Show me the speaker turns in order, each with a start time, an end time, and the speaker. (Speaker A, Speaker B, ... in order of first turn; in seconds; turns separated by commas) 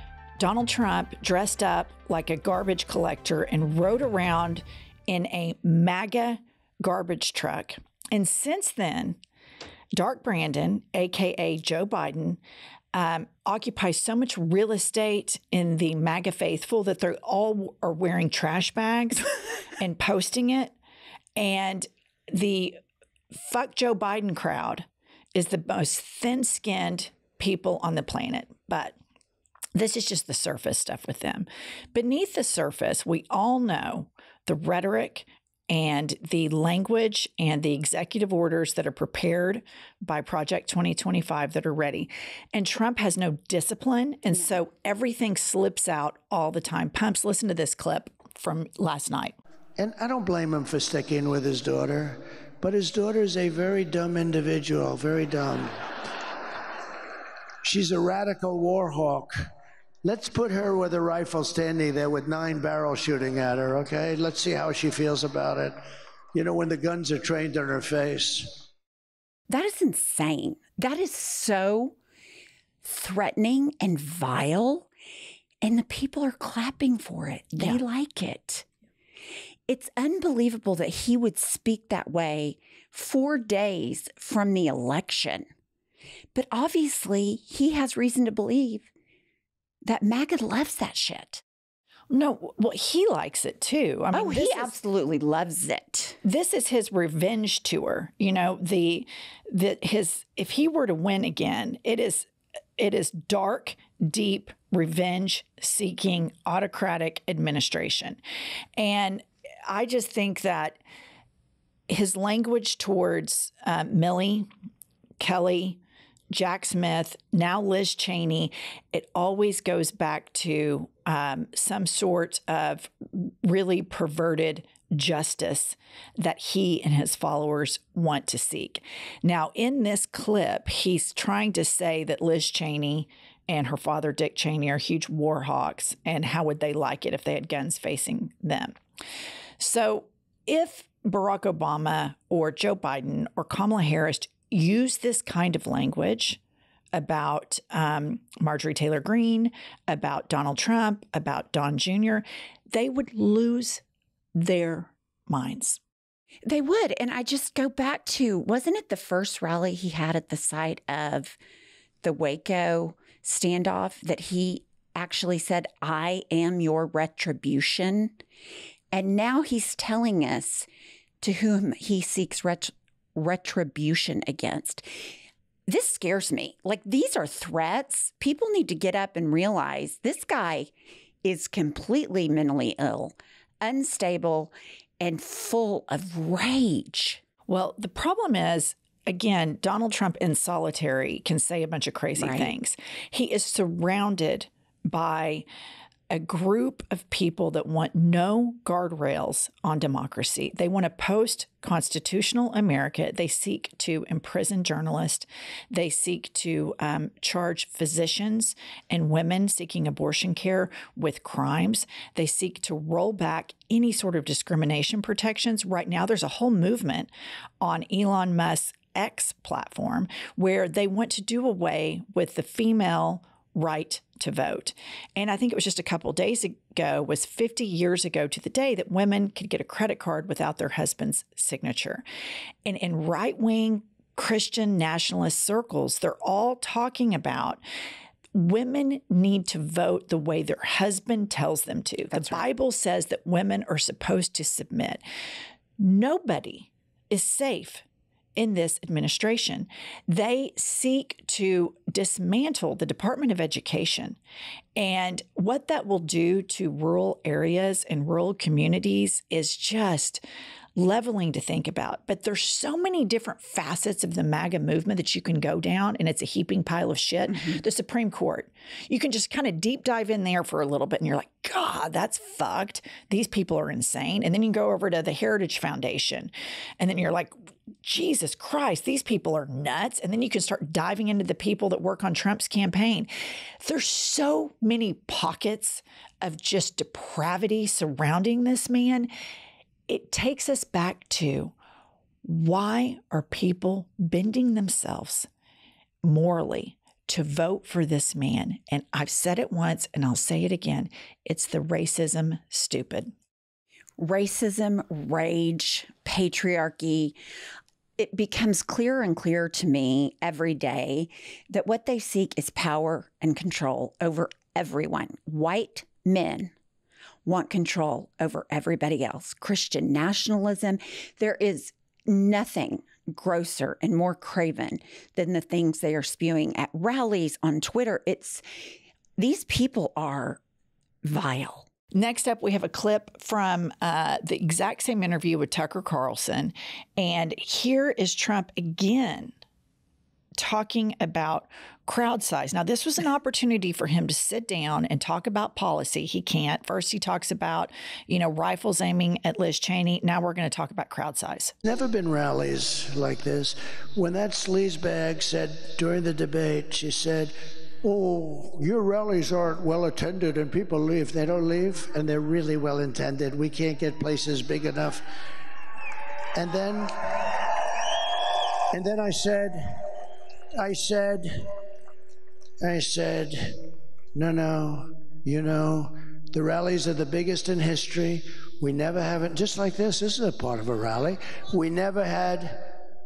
Speaker A: 0.4-9.2, Speaker A: 10.0-12.4, Speaker A: 12.9-20.7, Speaker A: 21.4-22.8, Speaker A: 23.3-29.0, Speaker A: 29.7-49.4, Speaker B: 49.8-55.7, Speaker B: 57.6-59.3, Speaker B: 60.0-65.8, Speaker B: 66.3-68.6, Speaker C: 69.5-71.9, Speaker C: 72.8-74.9, Speaker C: 75.6-78.7, Speaker C: 79.7-85.5, Speaker C: 86.3-88.9, Speaker C: 89.8-91.4, Speaker A: 92.1-94.7, Speaker C: 94.1-96.2, Speaker A: 96.2-108.2, Speaker A: 108.8-110.8, Speaker A: 111.9-114.5, Speaker A: 115.2-115.8, Speaker A: 116.3-138.7, Speaker A: 139.6-146.4, Speaker A: 146.9-153.8, Speaker A: 154.3-155.8, Speaker C: 156.4-161.4, Speaker C: 162.0-168.2, Speaker C: 168.9-170.7, Speaker C: 171.2-174.9, Speaker C: 175.7-180.7, Speaker C: 181.2-187.2, Speaker A: 187.5-195.4, Speaker C: 192.2-192.5, Speaker A: 196.1-232.0, Speaker A: 232.6-237.6, Speaker A: 238.3-245.0, Speaker C: 242.1-242.4, Speaker A: 245.8-247.8, Speaker A: 248.3-254.2, Speaker A: 254.8-260.2, Speaker A: 260.8-283.1, Speaker A: 283.6-289.1, Speaker A: 289.9-291.5, Speaker A: 292.2-295.3, Speaker A: 296.0-303.1, Speaker C: 304.0-307.1, Speaker C: 308.0-316.5, Speaker C: 317.2-328.4, Speaker C: 329.2-330.4, Speaker C: 331.0-331.7, Speaker A: 331.9-339.4, Speaker A: 340.4-351.5, Speaker B: 351.6-365.0, Speaker B: 366.4-367.5, Speaker B: 368.7-369.6, Speaker B: 370.6-371.3, Speaker B: 372.6-373.5, Speaker B: 374.1-382.7